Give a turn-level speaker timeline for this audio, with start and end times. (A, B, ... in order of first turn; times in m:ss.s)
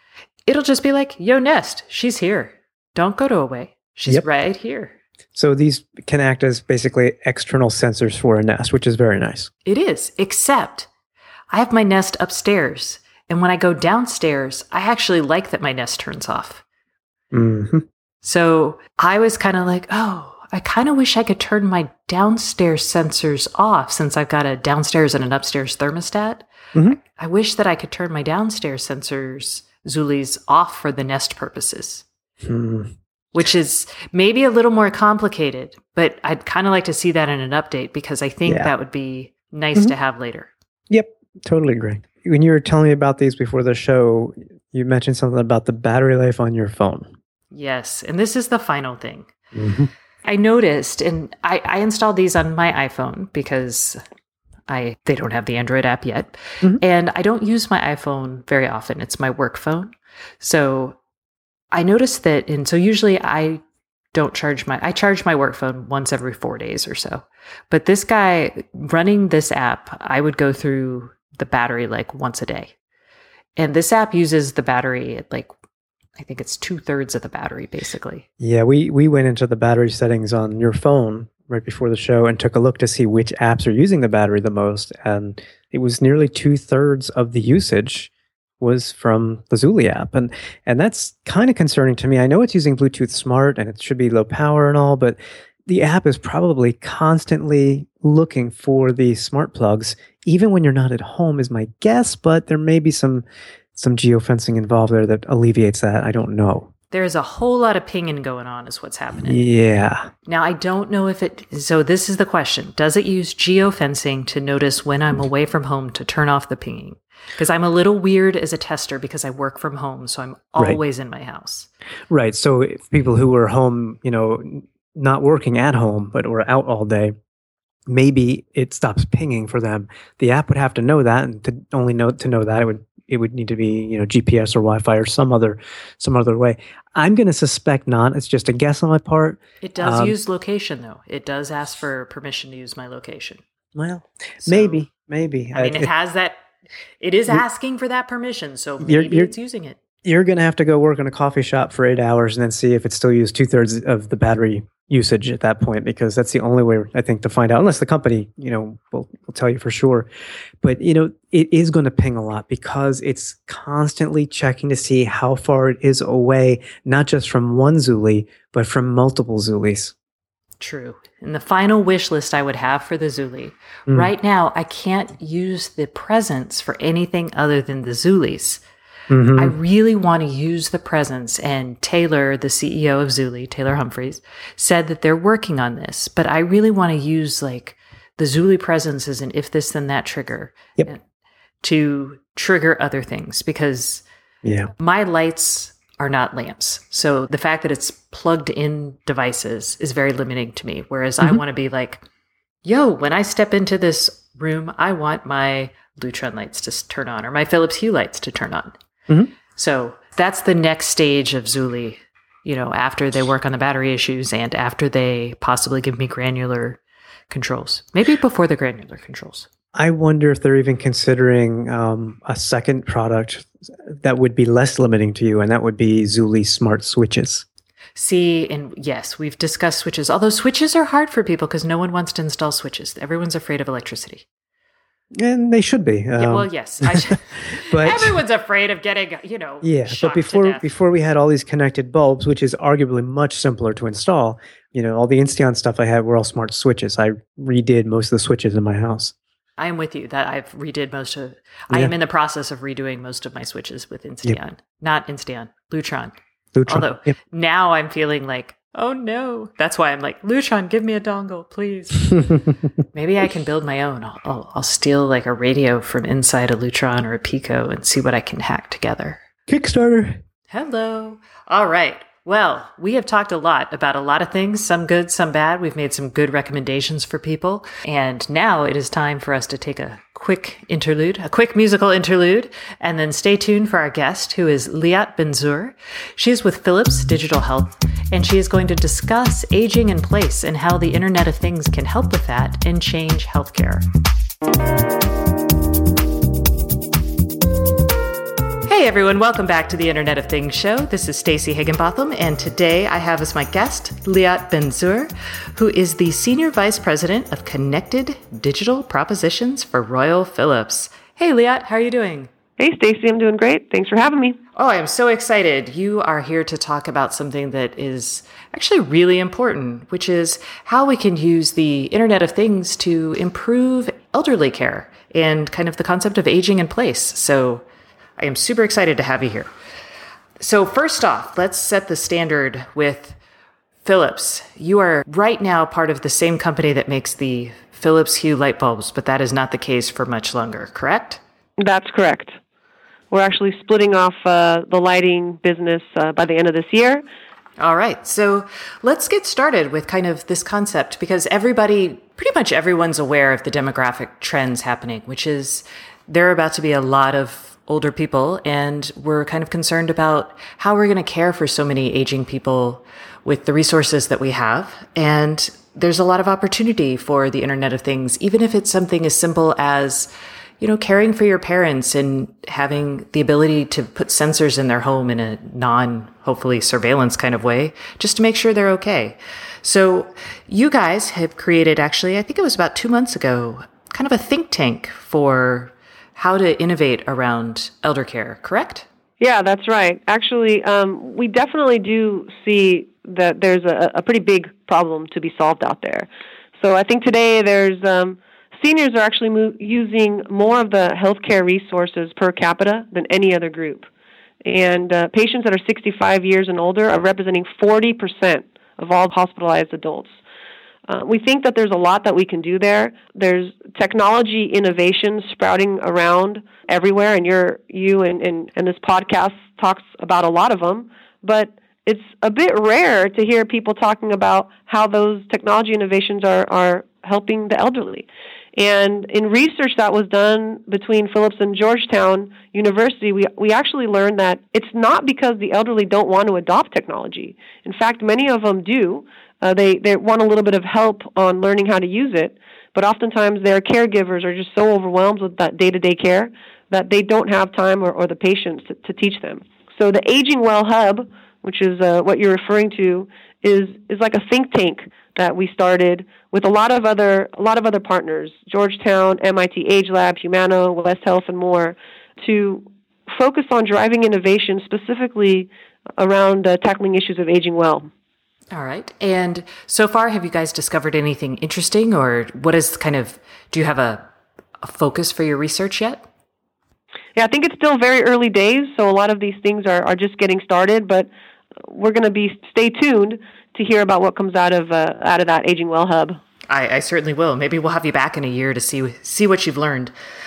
0:00.5-0:05.0 A
0:05.4-0:09.5 B
0:09.6-0:10.9 A
0:11.5-0:16.6 A
0:17.3-0:17.8 B
0:18.2-0:32.0 A
0:32.4-0:32.9 B
0:33.3-0:40.5 A
0:38.4-0:38.7 B
0:40.9-0:47.1 B
0:47.5-0:49.3 A
0:49.5-0:49.9 B
0:50.2-0:54.0 A
0:54.7-1:01.0 A
1:01.7-1:03.6 A
1:04.1-1:12.7 A
1:13.6-1:15.5 A
1:16.2-1:18.3 A
1:18.4-1:46.7 B
1:46.9-1:49.4 A
1:49.2-1:50.1 B
1:50.3-2:01.7 A
2:02.1-2:07.1 B
2:07.9-2:20.1 B
2:19.6-2:23.4 A
2:23.8-2:25.9 B
2:24.4-2:24.8 A
2:25.6-2:26.4 A
2:27.0-2:29.8 A
2:28.8-2:29.3 B
2:30.0-2:40.1 B
2:40.6-2:49.9 B
2:50.6-2:58.6 A
2:59.1-2:59.6 B
2:59.4-3:11.0 A
3:11.6-3:14.0 A
3:14.4-3:14.7 B
3:14.8-3:22.0 A
3:22.6-3:28.8 A
3:29.6-3:36.8 A
3:37.3-3:39.5 A
3:39.8-3:47.4 B
3:47.9-3:54.2 A
3:55.1-3:58.1 B
3:56.2-4:00.7 A
3:59.6-4:09.1 B
4:09.6-4:16.1 A
4:16.6-4:17.1 B
4:16.7-4:22.2 A
4:22.1-4:22.5 B
4:22.9-4:29.2 A
4:29.5-4:30.2 B
4:30.5-4:53.9 A
4:58.6-5:12.3 A
5:12.6-5:14.4 C
5:14.6-5:27.6 A
5:28.2-5:29.5 A
5:30.4-5:33.2 A
5:33.8-5:41.2 A
5:41.6-5:42.4 C
5:43.1-5:47.0 C
5:47.6-6:28.9 A
6:29.2-6:43.9 C
6:44.4-6:50.1 C
6:50.9-7:47.9 C
7:48.5-7:54.1 A
7:54.6-7:56.0 A
7:57.1-8:01.1 C
8:01.6-8:06.2 C
8:06.5-8:09.9 A